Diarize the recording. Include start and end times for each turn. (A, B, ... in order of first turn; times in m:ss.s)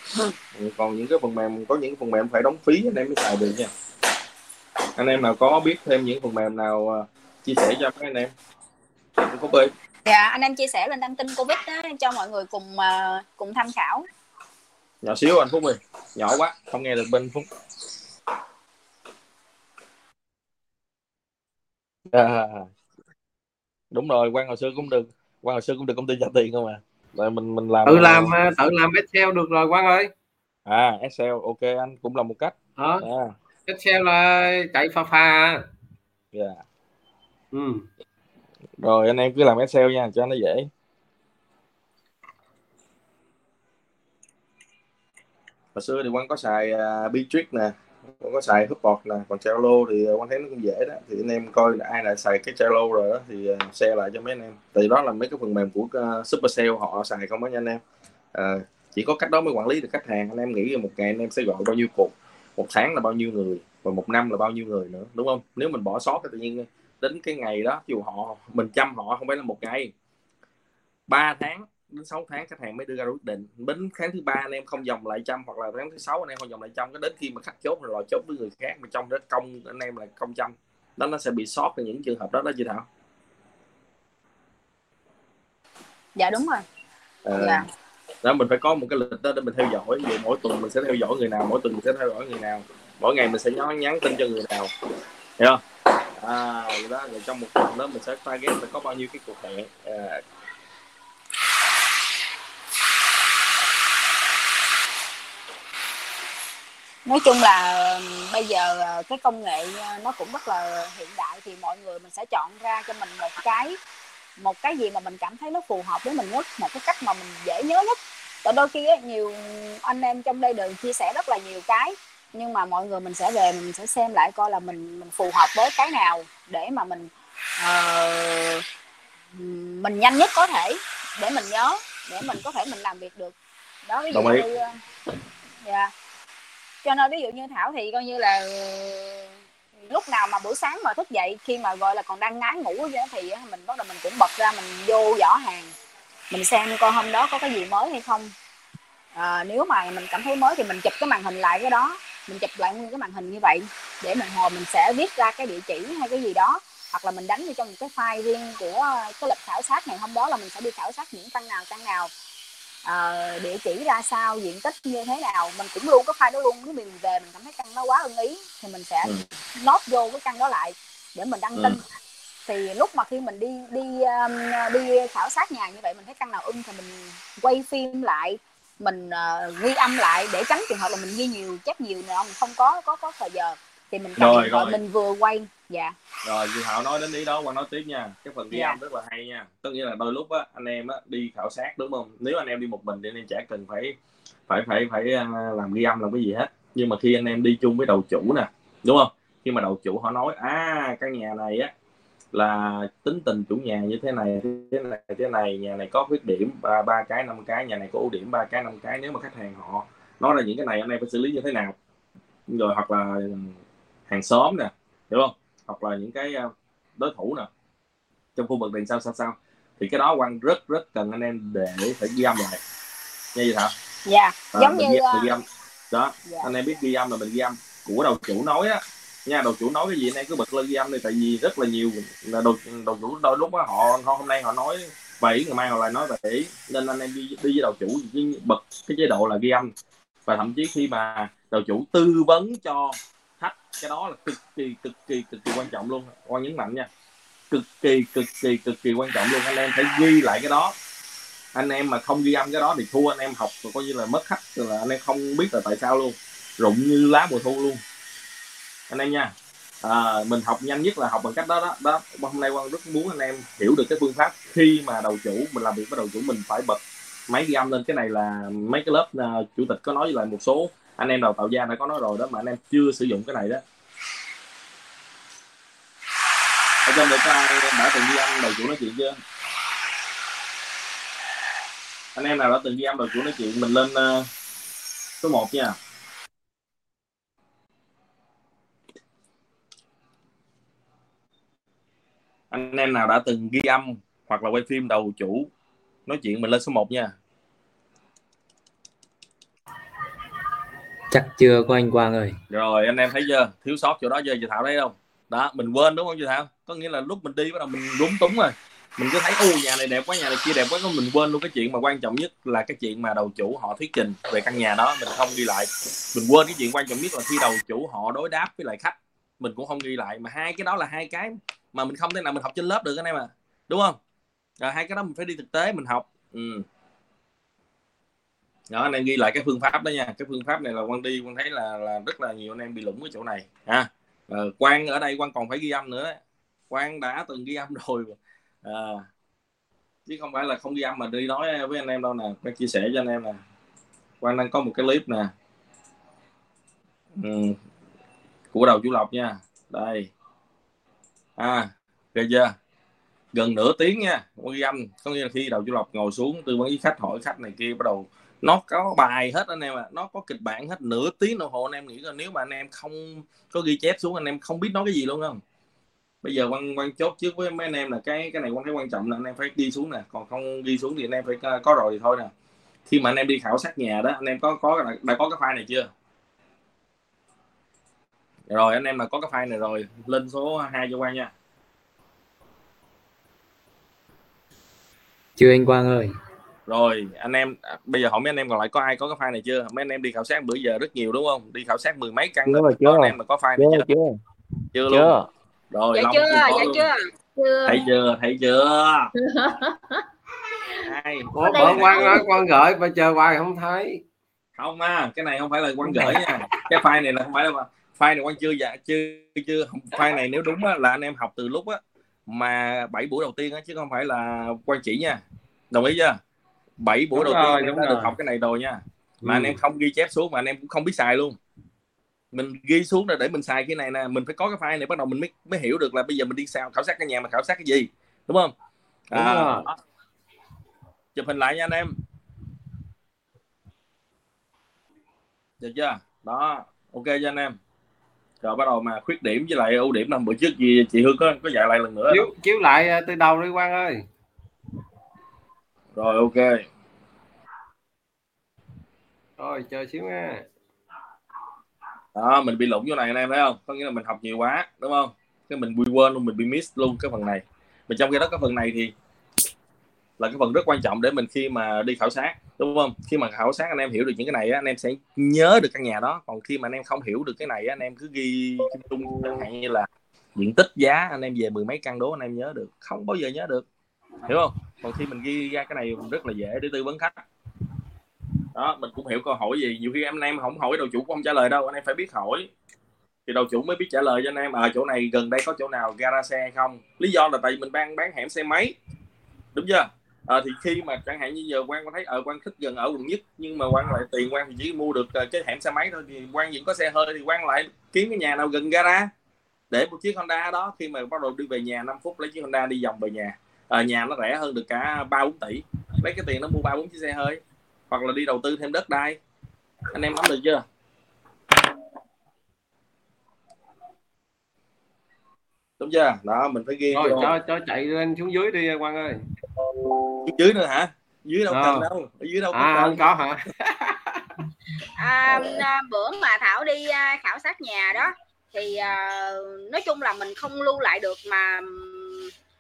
0:00.5-0:03.7 A
0:05.0-0:08.3 A
0:09.2-0:09.7 A
0:10.0-0:14.1 B
0:15.0-0:17.4 A
0:22.1-0:22.7 A
0:23.9-0:28.3 A
0:27.8-0:30.1 C
0:30.6-0:33.3 A
0:32.8-0:33.0 C
0:33.7-0:35.6 C
0:36.3-0:36.6 A
0:37.5-0:37.8 C
0:38.8-0:40.7 A
0:45.7-0:57.8 A
0:58.3-1:09.9 A
1:11.1-1:22.8 A
1:26.2-1:26.6 B
1:27.2-1:27.6 A
1:27.4-1:27.6 B
1:28.2-1:34.7 A
1:36.2-1:40.2 A
1:47.0-1:53.8 B
1:54.4-2:08.6 B
2:09.3-2:13.3 B
2:13.8-2:14.8 B
2:14.1-2:14.4 A
2:15.6-2:15.9 B
2:16.8-2:25.7 B
2:26.3-2:28.3 B
2:29.2-2:42.1 B
2:42.8-2:51.8 B
2:52.4-3:06.0 B
3:04.2-3:04.8 A
3:06.2-3:14.0 A
3:08.5-3:08.8 B
3:14.5-3:21.7 A
3:22.3-3:31.7 A
3:32.5-3:33.6 A
3:34.1-3:37.5 A
3:38.4-3:42.6 A
3:43.3-3:43.7 A
3:44.0-3:45.3 B
3:44.5-3:59.7 A
4:00.3-4:06.9 A
4:07.5-4:10.7 A
4:11.5-4:17.8 A
4:18.9-4:33.6 A
4:36.8-4:39.2 A
4:42.2-4:44.3 A
4:45.2-4:45.8 A
4:52.5-4:55.5 A
4:56.0-4:57.1 A
5:01.1-5:02.3 D
5:02.5-5:24.0 A
5:24.6-5:26.6 A
5:28.7-5:36.2 A
5:36.7-5:39.0 A
5:40.1-5:43.4 A
5:44.2-5:45.3 A
5:47.2-5:47.6 A
5:48.5-5:50.1 A
5:51.4-5:52.5 A
5:53.3-6:05.4 A
6:06.2-6:12.3 A
6:12.9-6:15.9 A
6:18.5-6:21.3 A
6:25.4-6:26.1 D
6:26.7-6:33.9 A
6:32.5-6:34.1 D
6:34.7-6:35.2 A
6:34.9-6:35.2 D
6:35.7-6:36.8 A
6:35.9-6:37.0 B
6:37.4-6:37.8 E
6:37.6-6:39.1 A
6:39.2-6:40.0 E
6:40.8-6:42.2 A
6:41.4-6:44.0 C
6:41.4-6:42.2 E
6:41.5-6:42.1 B
6:44.6-6:56.2 A
6:56.8-7:01.4 A
7:02.3-7:08.5 A
7:09.1-7:09.8 A
7:09.1-7:09.6 C
7:11.1-7:11.9 A
7:15.6-7:17.6 A
7:18.4-7:22.3 A
7:22.1-7:24.0 C
7:26.0-7:26.6 A
7:29.4-7:30.4 C
7:32.1-7:38.9 A
7:40.2-7:53.6 A
7:54.2-7:57.2 A
7:58.5-8:02.5 A
8:03.2-8:08.7 A
8:09.5-8:19.1 A
8:19.7-8:29.2 A
8:29.9-8:30.6 A
8:35.8-8:37.3 A
8:36.9-8:39.2 C
8:40.2-8:44.0 A
8:41.5-8:41.9 C
8:42.5-8:43.4 C
8:45.0-8:52.3 B